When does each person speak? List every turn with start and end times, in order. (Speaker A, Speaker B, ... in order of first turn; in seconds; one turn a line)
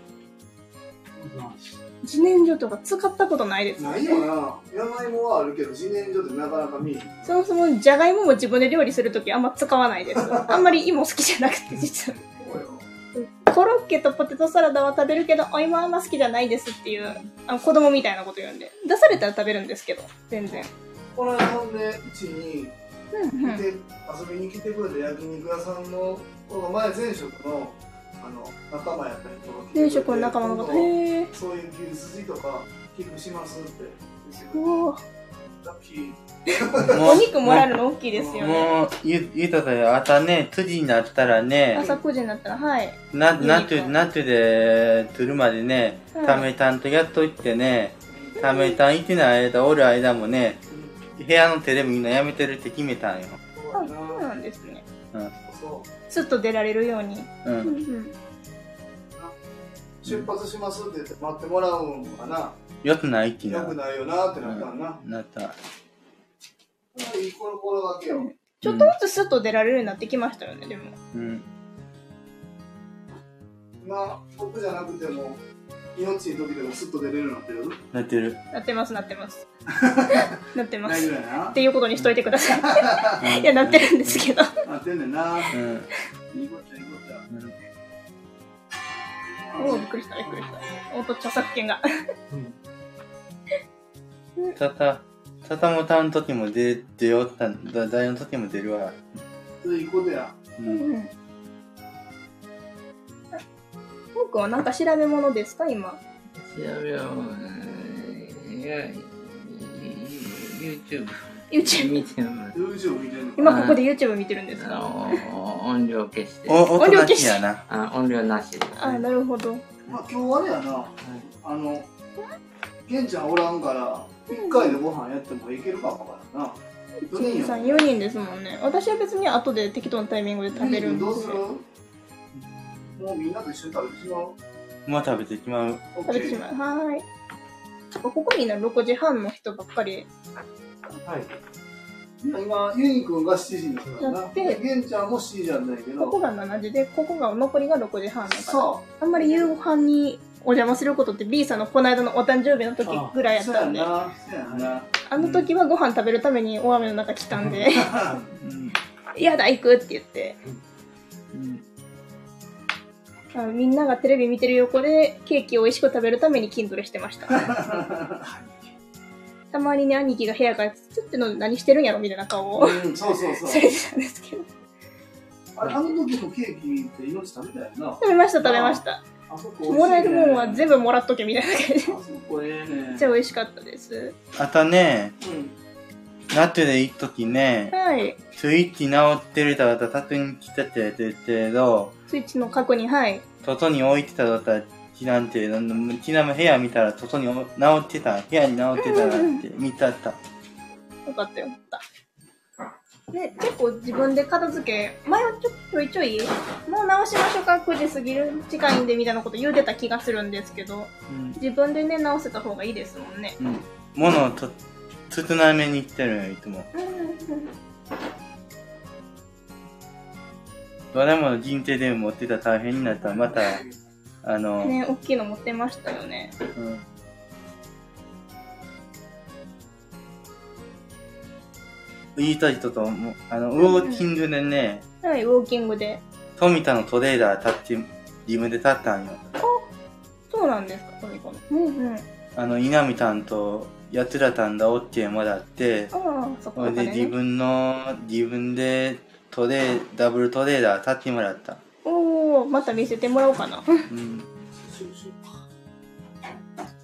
Speaker A: 1.1-1.8
Speaker B: 2.0-4.3
Speaker C: 3.8-7.3
Speaker B: 7.2-12.2
Speaker C: 10.1-10.8
Speaker C: 12.3-12.8
Speaker B: 13.1-20.7
Speaker C: 21.1-22.7
Speaker B: 23.1-23.6
Speaker C: 23.4-34.7
Speaker B: 29.7-31.3
Speaker B: 34.5-35.0
Speaker C: 35.6-37.0
Speaker D: 36.9-37.7
Speaker B: 36.9-38.7
Speaker C: 38.1-38.4
Speaker D: 38.3-41.9
Speaker B: 41.7-43.9
Speaker D: 43.1-50.6
Speaker B: 46.1-46.5
Speaker B: 48.4-48.8
Speaker C: 50.7-50.9
Speaker D: 51.1-53.4
Speaker C: 53.5-54.3
Speaker B: 53.7-54.8
Speaker C: 55.5-55.9
Speaker B: 56.1-58.1
Speaker D: 57.4-57.7
Speaker C: 60.0-62.6
Speaker D: 62.8-63.8
Speaker C: 63.5-65.0
Speaker D: 64.4-65.5
Speaker C: 66.9-68.3
Speaker B: 68.1-70.9
Speaker D: 68.6-68.9
Speaker D: 71.1-71.5
Speaker C: 73.8-75.4
Speaker C: 75.9-77.8
Speaker D: 77.9-78.4
Speaker B: 78.5-79.4
Speaker C: 79.7-81.6
Speaker B: 80.1-84.6
Speaker C: 82.5-83.2
Speaker D: 83.2-84.3
Speaker C: 84.6-85.5
Speaker D: 85.5-85.9
Speaker C: 86.3-87.3
Speaker D: 87.3-87.5
Speaker C: 89.5-89.9
Speaker B: 89.6-91.8
Speaker A: 92.3-92.5
Speaker D: 94.5-99.0
Speaker C: 99.6-100.4
Speaker D: 100.6-100.8
Speaker B: 100.7-101.1
Speaker B: 104.1-106.0
Speaker E: 106.3-112.5
Speaker B: 111.5-112.0
Speaker C: 112.5-113.5
Speaker B: 113.4-115.2
Speaker E: 113.4-113.8
Speaker E: 114.6-116.7
Speaker D: 116.5-117.6
Speaker B: 116.8-117.4
Speaker E: 117.7-119.0
Speaker B: 118.8-119.6
Speaker C: 119.9-121.9
Speaker C: 122.8-126.6
Speaker B: 124.3-124.8
Speaker B: 127.1-131.4
Speaker C: 127.1-127.9
Speaker C: 130.5-131.6
Speaker C: 132.9-134.3
Speaker D: 134.8-135.9
Speaker C: 135.9-136.4
Speaker B: 136.1-137.0
Speaker B: 138.0-140.1
Speaker A: 141.0-141.3
Speaker C: 142.2-146.2
Speaker B: 144.0-144.6
Speaker B: 146.0-153.9
Speaker C: 148.3-148.8
Speaker A: 152.8-153.1
Speaker C: 153.3-154.9
Speaker A: 154.5-154.7
Speaker B: 155.1-157.9
Speaker D: 155.2-155.5
Speaker C: 157.6-158.2
Speaker D: 158.3-158.8
Speaker B: 159.1-160.4
Speaker D: 161.3-161.6
Speaker B: 163.3-167.5
Speaker C: 167.3-168.2
Speaker A: 168.2-168.7
Speaker B: 169.5-172.8
Speaker C: 172.5-173.7
Speaker B: 173.4-174.5
Speaker C: 175.5-180.7
Speaker B: 178.0-179.0
Speaker B: 179.7-182.0
Speaker C: 181.8-183.1
Speaker B: 182.9-184.1
Speaker D: 184.3-185.1
Speaker C: 185.2-185.5
Speaker D: 186.3-187.7
Speaker B: 187.7-188.2
Speaker D: 188.3-191.9
Speaker B: 192.1-193.2
Speaker D: 193.4-200.2
Speaker B: 198.8-199.4
Speaker B: 201.1-201.8
Speaker B: 203.1-213.4
Speaker D: 211.1-211.4
Speaker D: 213.4-214.6
Speaker D: 215.1-216.7
Speaker B: 216.7-217.5
Speaker D: 220.9-223.6
Speaker C: 223.3-223.7
Speaker D: 224.2-224.8
Speaker B: 224.6-226.3
Speaker D: 226.6-226.8
Speaker D: 232.2-234.8
Speaker B: 233.6-234.1
Speaker B: 235.0-236.0
Speaker D: 236.4-239.3
Speaker B: 239.4-239.7
Speaker B: 240.3-242.0
Speaker D: 242.3-245.9
Speaker B: 245.9-247.1
Speaker D: 246.6-251.6
Speaker B: 251.8-253.8
Speaker D: 253.9-254.3
Speaker C: 254.6-255.3